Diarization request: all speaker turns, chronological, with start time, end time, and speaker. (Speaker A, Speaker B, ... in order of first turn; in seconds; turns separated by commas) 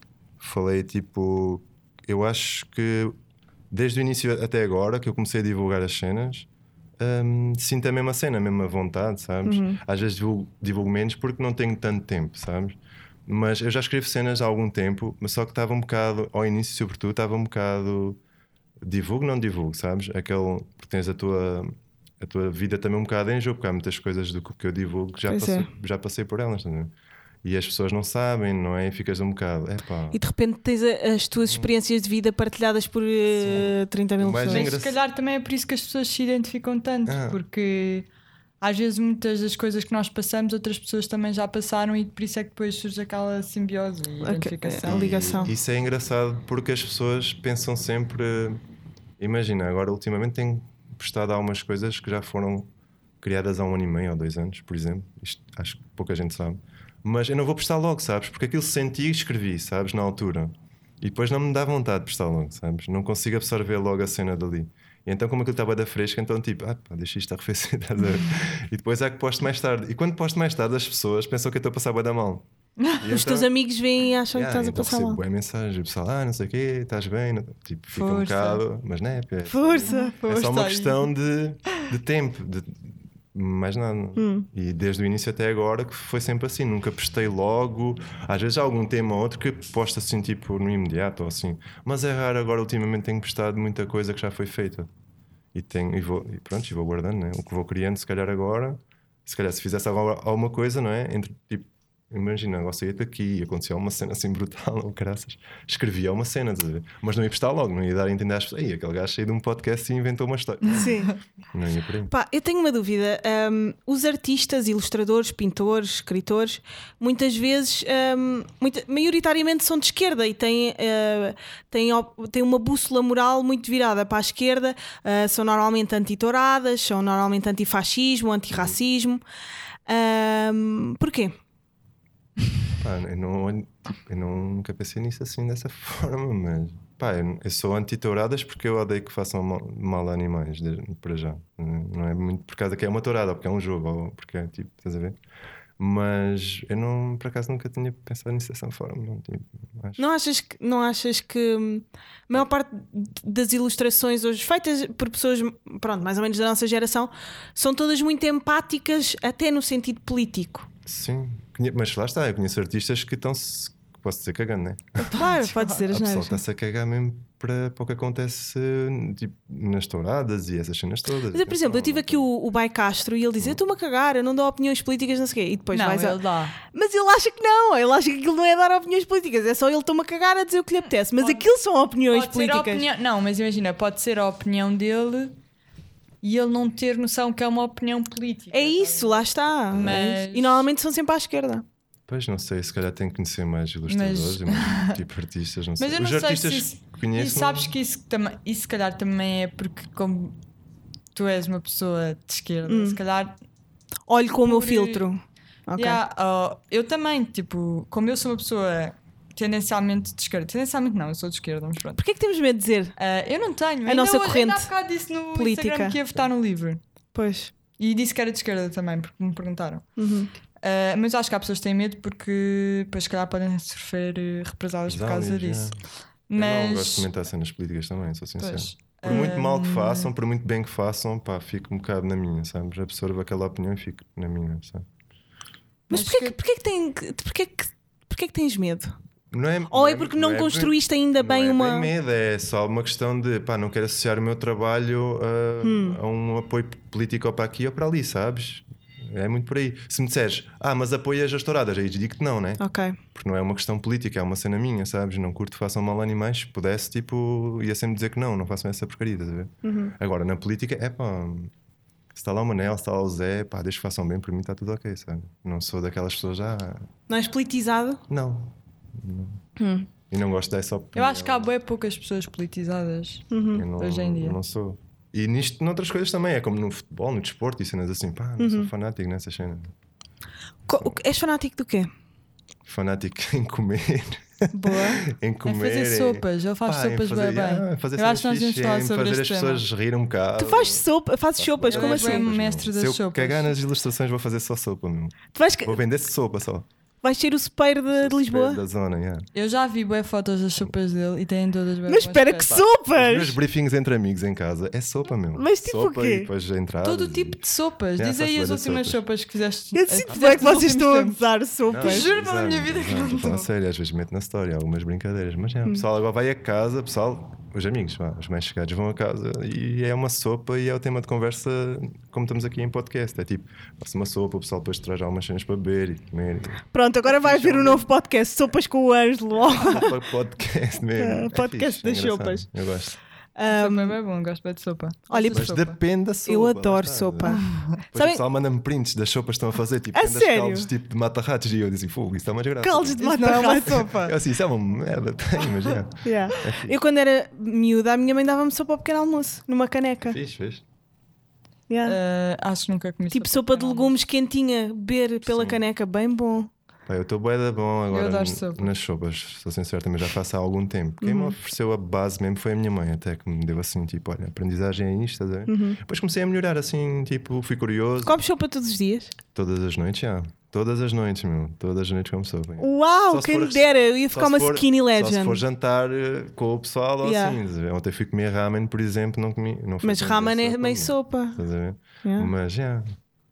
Speaker A: 0.4-3.2, Speaker A: 3.7-6.5, Speaker A: 7.0-18.2, Speaker B: 9.4-9.8, Speaker A: 18.8-26.9, Speaker B: 25.3-25.7, Speaker A: 27.4-30.2, Speaker B: 30.1-34.7, Speaker A: 31.4-31.7, Speaker A: 33.4-35.0, Speaker C: 34.5-38.1, Speaker A: 37.1-37.4, Speaker C: 38.6-45.5, Speaker B: 44.2-45.5, Speaker A: 44.9-48.6, Speaker A: 49.2-52.7, Speaker A: 53.2-72.5, Speaker C: 72.8-73.0, Speaker A: 73.0-73.5, Speaker B: 73.0-75.2, Speaker A: 74.3-94.9, Speaker C: 77.9-78.6, Speaker B: 79.5-80.2, Speaker C: 79.9-81.1, Speaker B: 84.2-84.5, Speaker A: 95.5-110.9, Speaker C: 110.6-111.1, Speaker B: 110.7-111.2, Speaker A: 111.5-112.1, Speaker B: 112.1-129.2, Speaker B: 129.9-131.3, Speaker A: 132.8-145.2, Speaker A: 145.8-150.0, Speaker B: 150.0-160.7, Speaker A: 160.9-165.1, Speaker C: 165.1-165.8, Speaker B: 165.1-166.4, Speaker A: 165.9-172.3, Speaker B: 171.3-182.8, Speaker C: 175.7-176.6, Speaker C: 181.2-181.5, Speaker C: 182.1-185.4, Speaker C: 186.2-190.7, Speaker B: 188.5-191.7, Speaker A: 192.1-197.7, Speaker C: 193.9-195.0, Speaker C: 195.8-200.4, Speaker C: 201.1-203.4, Speaker B: 202.7-203.0, Speaker B: 204.1-206.0, Speaker C: 204.4-205.1, Speaker C: 205.8-212.0, Speaker B: 212.0-212.9, Speaker C: 213.0-216.8, Speaker B: 213.9-214.7, Speaker B: 215.3-216.2, Speaker B: 217.1-217.5, Speaker C: 217.8-219.8, Speaker B: 220.0-220.3, Speaker C: 220.6-225.7, Speaker A: 224.9-225.8, Speaker C: 226.3-227.1, Speaker A: 226.3-234.9, Speaker C: 228.4-230.1, Speaker B: 235.9-238.9, Speaker C: 235.9-236.4, Speaker A: 239.3-252.6, Speaker B: 239.7-241.9, Speaker B: 245.6-246.0, Speaker B: 252.6-253.0, Speaker A: 253.1-261.5, Speaker B: 259.6-259.9, Speaker A: 262.1-266.9, Speaker B: 267.1-268.0, Speaker A: 268.1-269.4, Speaker B: 269.6-269.9, Speaker A: 270.1-271.5, Speaker C: 270.9-273.3, Speaker B: 273.3-273.7, Speaker A: 273.5-279.7, Speaker C: 273.8-274.4, Speaker B: 278.4-278.7, Speaker B: 280.7-281.9, Speaker A: 282.7-290.9, Speaker B: 284.5-285.0, Speaker C: 285.4-289.6, Speaker B: 290.4-292.3, Speaker A: 291.4-296.7, Speaker C: 291.7-293.6, Speaker B: 295.3-295.8, Speaker B: 297.0-298.6, Speaker A: 297.9-299.3, Speaker C: 299.3-302.6, Speaker B: 301.9-303.4, Speaker A: 302.5-307.4, Speaker B: 305.3-306.3, Speaker C: 306.8-311.2, Speaker A: 308.0-309.0, Speaker B: 309.7-312.1, Speaker A: 310.1-310.5, Speaker A: 311.7-327.9, Speaker C: 311.8-313.5, Speaker B: 326.7-330.0, Speaker A: 329.4-333.0, Speaker B: 331.0-332.5, Speaker B: 333.4-334.0, Speaker C: 333.5-335.8, Speaker B: 335.1-335.5, Speaker A: 335.3-337.4, Speaker B: 336.3-338.2, Speaker C: 337.3-337.8, Speaker A: 337.9-343.1, Speaker B: 339.9-340.7, Speaker B: 342.6-344.0, Speaker C: 343.0-344.1, Speaker A: 343.6-346.8, Speaker B: 346.0-350.2, Speaker A: 350.0-350.6, Speaker B: 351.7-352.0, Speaker C: 351.8-354.0, Speaker B: 353.1-356.5, Speaker A: 355.3-355.6, Speaker A: 356.9-368.2, Speaker C: 357.9-358.7, Speaker B: 361.0-361.4, Speaker B: 365.5-365.8, Speaker B: 368.1-369.1, Speaker A: 369.4-383.0, Speaker B: 372.6-375.4, Speaker B: 377.0-377.4, Speaker B: 379.8-381.4, Speaker B: 382.0-382.3